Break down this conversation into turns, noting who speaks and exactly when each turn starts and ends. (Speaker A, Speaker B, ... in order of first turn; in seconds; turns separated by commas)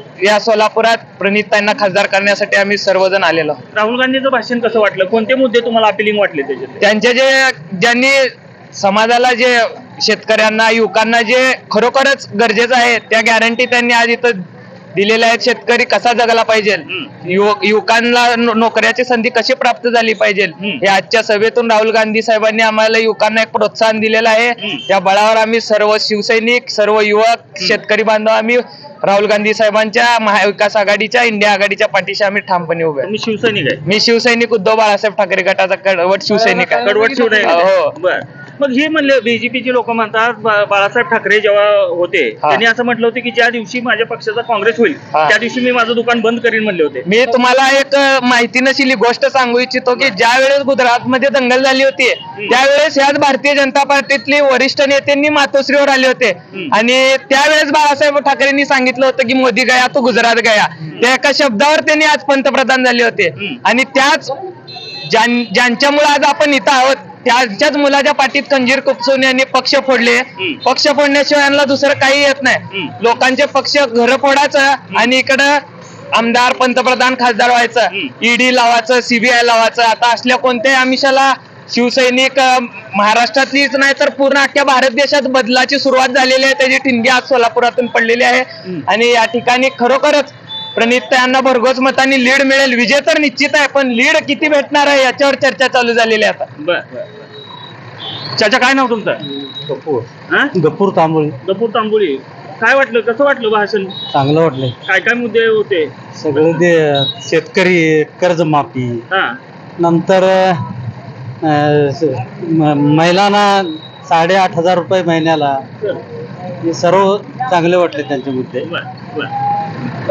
Speaker A: 0.2-3.6, Speaker B: 3.7-6.8, Speaker A: 6.8-14.4, Speaker A: 14.9-33.1, Speaker B: 20.6-20.8, Speaker B: 33.0-33.8, Speaker A: 33.8-37.9, Speaker B: 36.4-47.0, Speaker A: 47.0-64.3, Speaker A: 65.1-96.5, Speaker B: 96.6-97.2, Speaker B: 98.4-99.2, Speaker C: 99.7-100.0, Speaker C: 100.6-101.3, Speaker B: 101.4-103.9, Speaker C: 104.1-104.7, Speaker B: 104.8-106.6, Speaker C: 106.2-109.0, Speaker B: 109.1-109.4, Speaker C: 109.8-110.6, Speaker C: 111.4-115.6, Speaker C: 116.6-118.7, Speaker B: 118.6-119.3